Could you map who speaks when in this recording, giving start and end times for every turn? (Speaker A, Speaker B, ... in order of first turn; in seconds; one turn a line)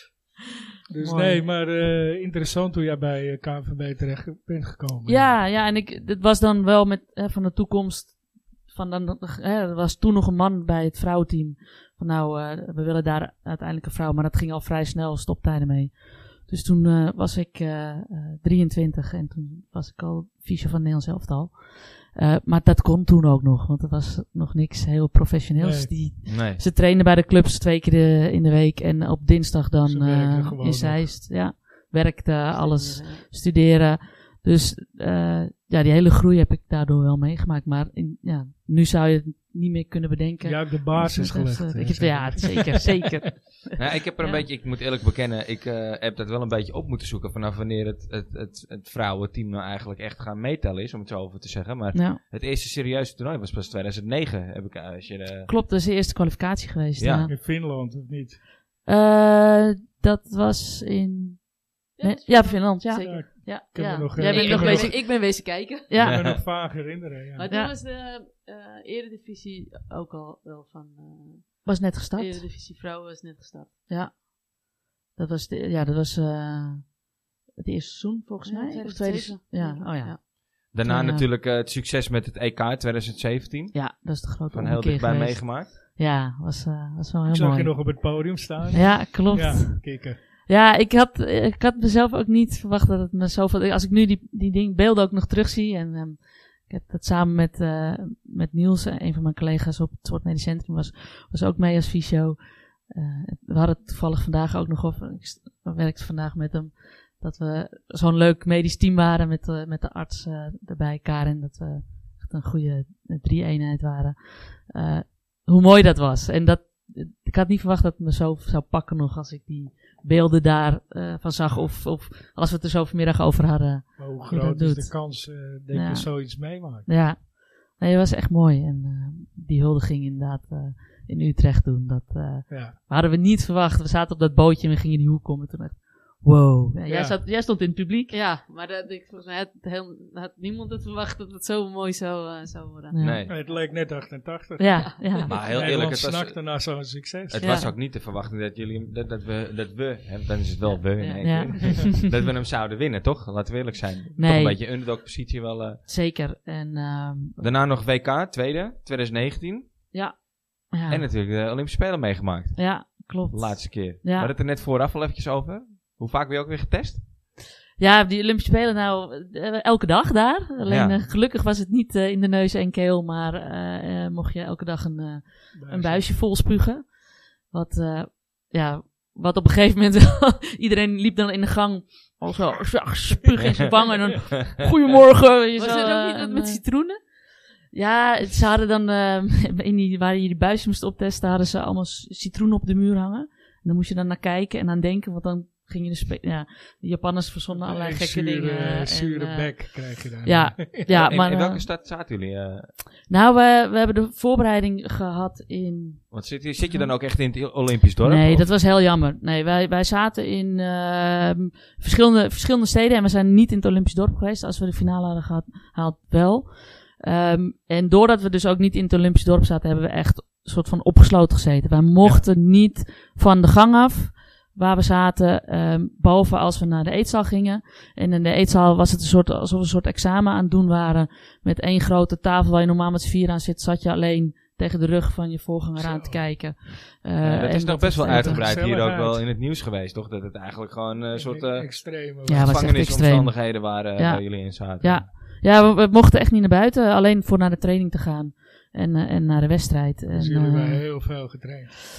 Speaker A: 0.9-5.4
Speaker B: 1.0-1.4
Speaker B: 5.1-44.5
Speaker A: 25.6-26.0
Speaker C: 26.3-26.6
Speaker A: 29.8-31.2
Speaker D: 32.5-33.3
Speaker A: 40.4-43.2
Speaker D: 41.9-42.4
Speaker C: 43.8-55.5
Speaker B: 51.9-52.2
Speaker B: 55.5-57.4
Speaker C: 57.0-57.3
Speaker A: 57.3-58.4
Speaker B: 58.9-65.4
Speaker D: 62.0-65.9
Speaker A: 63.0-65.0
Speaker B: 65.9-66.3
Speaker A: 66.0-67.5
Speaker C: 66.0-66.4
Speaker D: 67.3-73.9
Speaker B: 67.5-67.7
Speaker B: 71.7-72.5
Speaker B: 73.9-74.3
Speaker B: 75.2-77.0
Speaker B: 77.6-81.2
Speaker D: 78.5-80.2
Speaker C: 80.7-85.7
Speaker B: 83.7-138.2
Speaker A: 87.3-90.2
Speaker A: 124.0-126.9
Speaker A: 132.5-132.8
Speaker A: 136.9-137.2
Speaker D: 138.1-143.5
Speaker B: 142.9-143.2
Speaker C: 143.0-143.3
Speaker A: 143.3-147.6
Speaker B: 144.6-145.3
Speaker D: 144.8-145.3
Speaker C: 145.3-146.8
Speaker C: 147.3-155.8
Speaker B: 147.4-147.7
Speaker D: 150.7-151.8
Speaker B: 151.2-151.9
Speaker B: 154.2-154.8
Speaker B: 155.9-157.5
Speaker C: 157.4-160.2
Speaker B: 159.9-161.1
Speaker C: 160.9-167.1
Speaker B: 162.6-164.3
Speaker B: 167.8-201.7
Speaker C: 170.7-171.0
Speaker A: 175.5-176.2
Speaker D: 185.6-187.0
Speaker A: 197.5-200.9
Speaker C: 200.8-202.7
Speaker B: 203.1-206.9
Speaker C: 206.1-208.5
Speaker B: 208.0-238.6
Speaker A: 235.8-236.4
Speaker C: 237.2-245.1
Speaker A: 238.0-239.3
Speaker A: 241.1-242.8
Speaker B: 242.3-251.1
Speaker A: 250.1-251.8